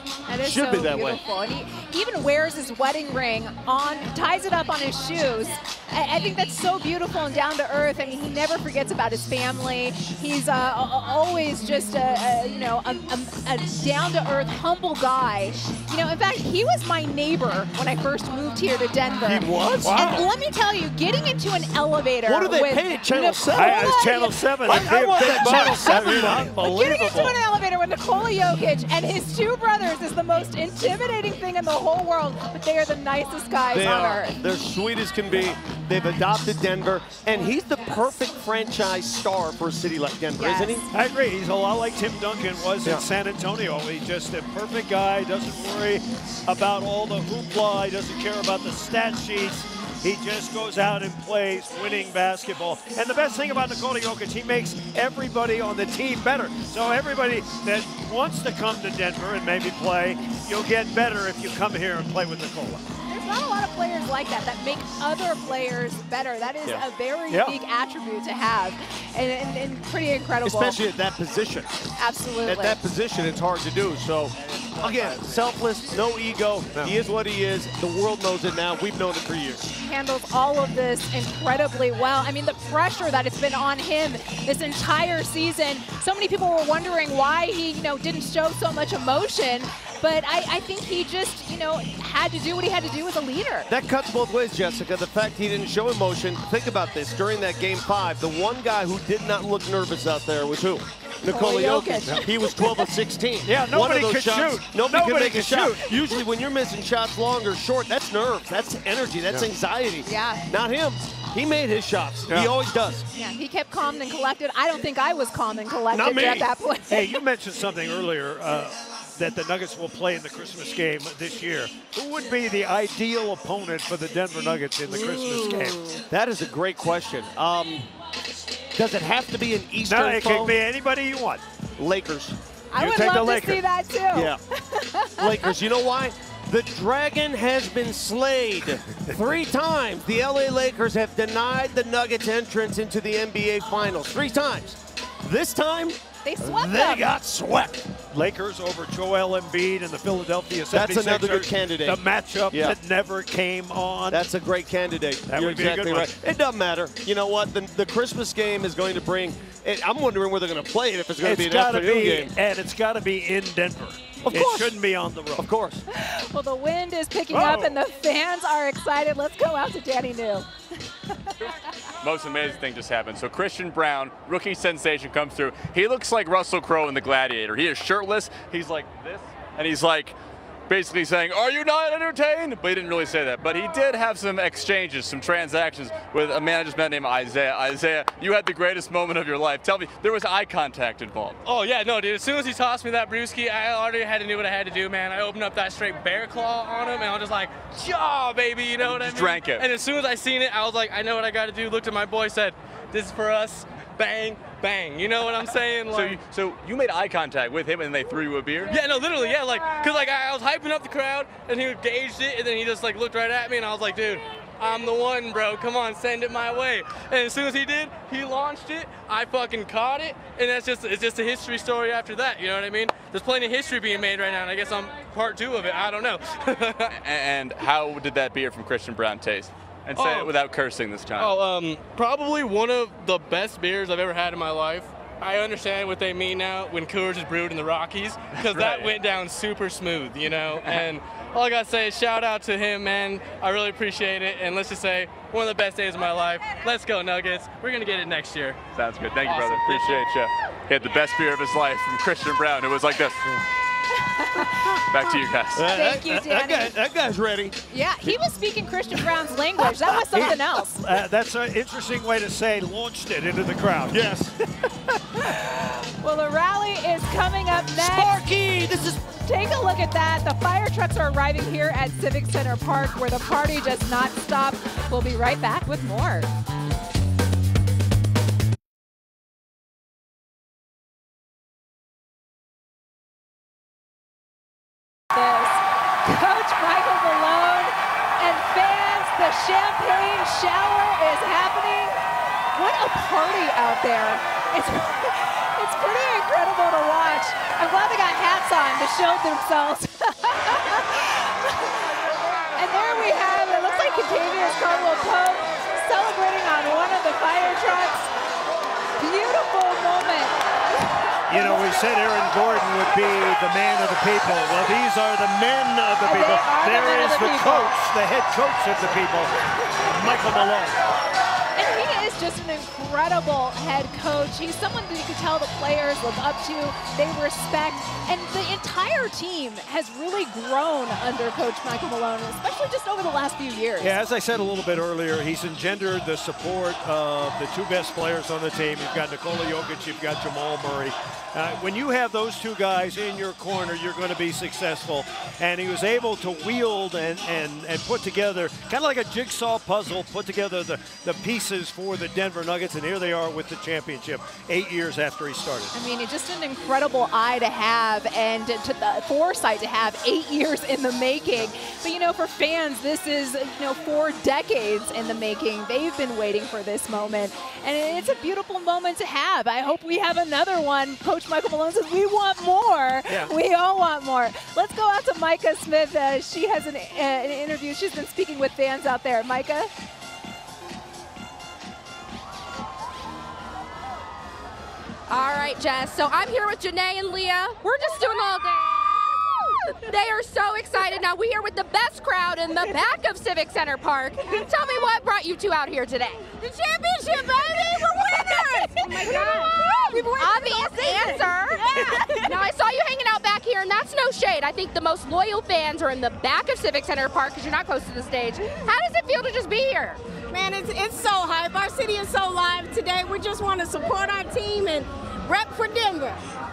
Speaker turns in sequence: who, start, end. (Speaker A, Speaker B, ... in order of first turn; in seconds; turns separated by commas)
Speaker A: 0.3-34.3, Speaker B: 0.4-1.2, Speaker B: 19.3-20.2, Speaker C: 19.3-20.2, Speaker B: 22.2-24.1, Speaker C: 23.5-27.3, Speaker B: 24.7-26.6, Speaker B: 33.7-40.9, Speaker A: 40.4-40.9, Speaker C: 40.9-62.8, Speaker A: 63.1-70.8, Speaker C: 66.7-67.6, Speaker B: 70.5-71.8, Speaker A: 72.0-72.8, Speaker B: 72.5-79.7, Speaker A: 79.8-93.7, Speaker B: 93.7-113.0, Speaker A: 101.3-102.9, Speaker C: 103.5-105.9, Speaker A: 110.1-110.5, Speaker A: 113.2-117.2, Speaker B: 115.9-116.5, Speaker C: 116.1-126.0, Speaker B: 126.1-127.9, Speaker B: 128.8-130.6, Speaker C: 129.8-131.4, Speaker B: 131.8-132.4, Speaker A: 132.7-135.5, Speaker C: 132.8-133.6, Speaker B: 134.1-134.4, Speaker B: 135.2-146.0, Speaker A: 146.2-147.1, Speaker C: 146.4-154.2, Speaker B: 147.4-147.7, Speaker B: 150.7-152.8, Speaker B: 154.1-162.3, Speaker C: 155.3-156.1, Speaker C: 161.2-165.5, Speaker B: 164.2-164.7, Speaker B: 165.4-165.8, Speaker A: 165.9-170.5, Speaker C: 167.3-167.8, Speaker D: 172.0-180.2, Speaker D: 180.7-191.4, Speaker E: 191.4-206.2, Speaker D: 198.8-199.7, Speaker D: 205.9-208.7, Speaker E: 208.7-226.9, Speaker D: 227.0-231.3, Speaker E: 229.9-230.3, Speaker E: 231.2-248.7, Speaker D: 238.5-238.9, Speaker D: 248.7-253.2, Speaker E: 249.2-250.1, Speaker A: 254.0-255.0, Speaker D: 254.9-255.7, Speaker B: 255.6-258.2, Speaker A: 255.7-256.7, Speaker A: 257.7-260.8, Speaker C: 260.1-264.2, Speaker B: 263.9-264.3, Speaker A: 265.2-268.2, Speaker B: 267.8-269.0, Speaker A: 269.2-276.3, Speaker A: 285.1-292.0, Speaker A: 292.6-301.7, Speaker A: 302.6-308.1, Speaker A: 309.0-310.4, Speaker C: 311.3-319.3, Speaker A: 311.3-311.6, Speaker A: 316.0-317.7, Speaker C: 319.8-320.8, Speaker A: 321.6-334.0, Speaker C: 333.8-355.7, Speaker A: 355.7-379.7, Speaker F: 385.1-396.3, Speaker G: 396.4-397.9, Speaker F: 397.1-410.0, Speaker A: 397.9-399.5, Speaker G: 398.8-399.6, Speaker A: 400.1-402.3, Speaker G: 410.3-416.2